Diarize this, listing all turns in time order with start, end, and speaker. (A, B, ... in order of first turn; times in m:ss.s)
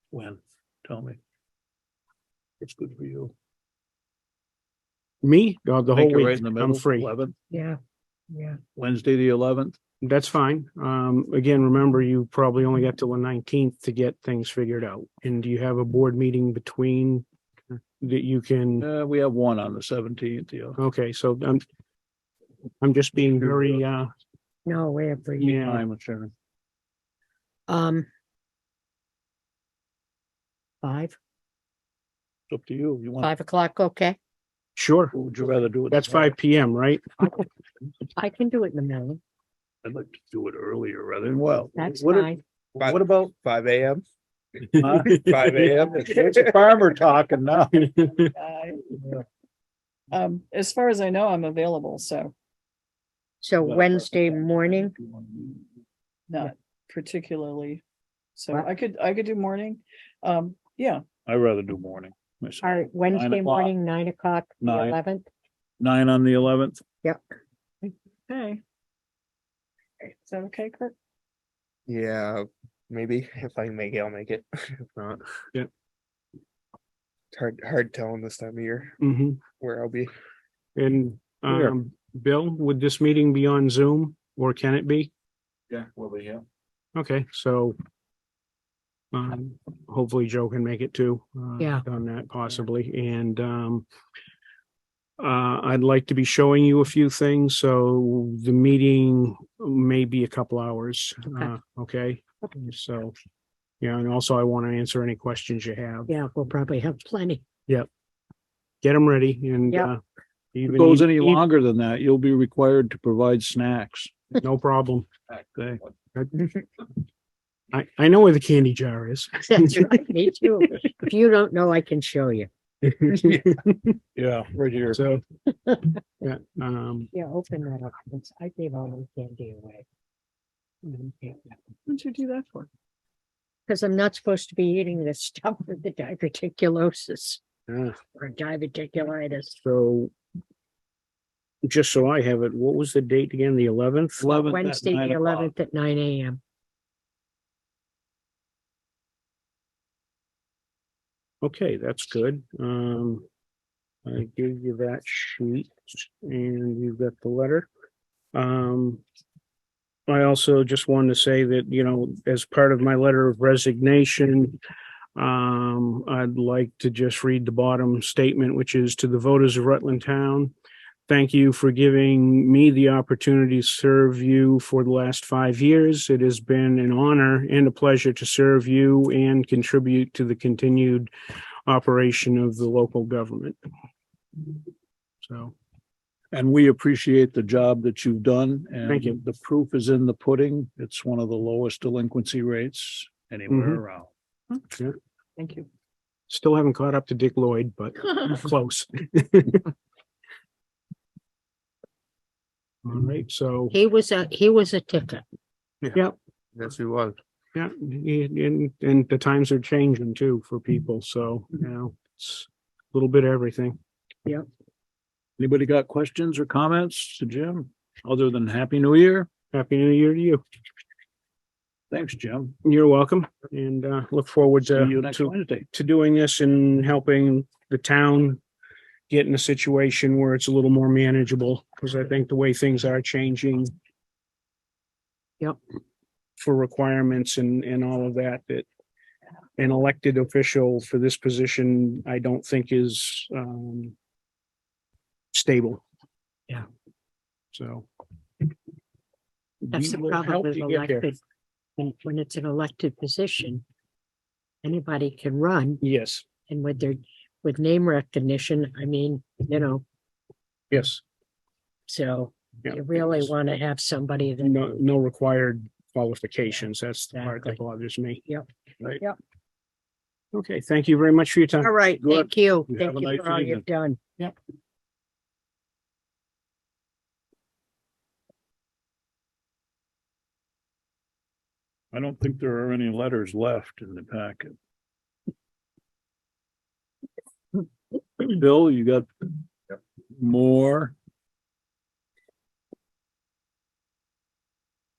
0:00.1-0:01.2 A
0:02.6-0:03.3 A
0:05.2-0:07.1 B
0:05.9-0:07.3 A
0:07.5-0:07.8 C
0:08.3-0:08.6 C
0:08.8-0:09.8 A
0:10.0-0:18.9 B
0:18.8-0:20.8 A
0:20.8-0:21.6 B
0:22.8-0:24.1 B
0:24.7-0:25.6 C
0:25.4-0:25.8 B
0:25.5-0:26.3 A
0:27.7-0:28.1 C
0:30.8-0:31.2 C
0:32.5-0:33.3 A
0:33.2-0:34.2 C
0:34.8-0:35.2 B
0:35.2-0:36.4 A
0:35.9-0:37.2 B
0:38.2-0:39.2 C
0:39.8-0:43.3 A
0:41.7-0:42.4 C
0:42.8-0:44.0 D
0:44.7-0:45.6 B
0:44.8-0:47.9 A
0:45.2-0:46.6 D
0:47.7-0:48.3 B
0:48.4-0:49.0 E
0:50.1-0:52.3 E
0:53.4-0:54.9 C
0:53.6-0:55.6 A
0:56.3-0:57.8 E
0:58.4-1:01.0 E
1:01.2-1:03.7 A
1:02.6-1:05.3 C
1:04.6-1:05.0 A
1:05.8-1:06.8 A
1:07.8-1:08.6 E
1:10.0-1:10.9 E
1:11.9-1:15.2 D
1:17.3-1:19.0 D
1:19.0-1:19.4 B
1:19.6-1:20.1 D
1:20.8-1:25.1 B
1:25.7-1:26.4 A
1:27.0-1:27.8 B
1:29.1-1:33.9 B
1:31.6-1:31.8 C
1:35.2-1:43.2 B
1:43.8-1:46.1 B
1:46.1-1:47.4 C
1:48.8-1:50.0 B
1:50.6-1:51.4 B
1:50.7-1:54.2 A
1:54.4-1:55.1 B
1:55.3-1:55.8 A
1:56.2-1:56.4 B
1:57.7-2:00.8 B
1:59.5-2:02.5 C
2:02.8-2:04.0 B
2:04.2-2:05.0 A
2:04.9-2:05.2 B
2:05.5-2:06.0 C
2:06.2-2:07.1 B
2:07.1-2:09.8 C
2:10.9-2:11.5 C
2:11.9-2:12.7 E
2:13.7-2:17.4 C
2:17.7-2:18.0 B
2:18.2-2:19.6 C
2:19.6-2:20.1 B
2:21.6-2:24.4 B
2:24.2-2:25.5 A
2:24.4-2:26.4 C
2:31.4-2:33.2 B
2:34.1-2:37.7 B
2:38.3-2:39.0 B
2:40.1-2:44.6 B
2:45.2-2:50.5 B
2:51.1-3:01.1 B
3:01.7-3:03.6 B
3:05.2-3:05.6 B
3:06.3-3:14.1 A
3:08.9-3:09.2 B
3:13.5-3:13.8 B
3:14.7-3:15.0 B
3:15.4-3:15.7 E
3:16.3-3:19.7 B
3:22.8-3:23.8 B
3:23.7-3:25.2 C
3:26.6-3:27.2 D
3:27.6-3:33.8 B
3:35.4-3:39.3 A
3:39.5-3:40.4 B
3:41.9-3:42.6 A
3:42.6-3:48.4 B
3:44.7-3:45.7 A
3:49.1-3:53.7 B
3:56.4-3:58.7 B
3:59.6-4:04.0 B
4:05.3-4:05.8 B
4:07.5-4:07.9 B
4:09.6-4:11.2 B
4:09.7-4:11.2 C
4:11.8-4:13.6 C
4:14.6-4:15.8 C
4:15.8-4:16.3 B
4:16.5-4:19.8 C
4:20.7-4:21.0 B
4:21.9-4:24.8 C
4:22.6-4:23.3 B
4:24.4-4:28.3 B
4:27.1-4:27.6 C
4:30.3-4:31.8 B
4:31.6-4:34.3 C
4:32.0-4:33.7 A
4:41.9-4:44.6 A
4:48.2-4:49.3 A
4:50.2-4:51.0 A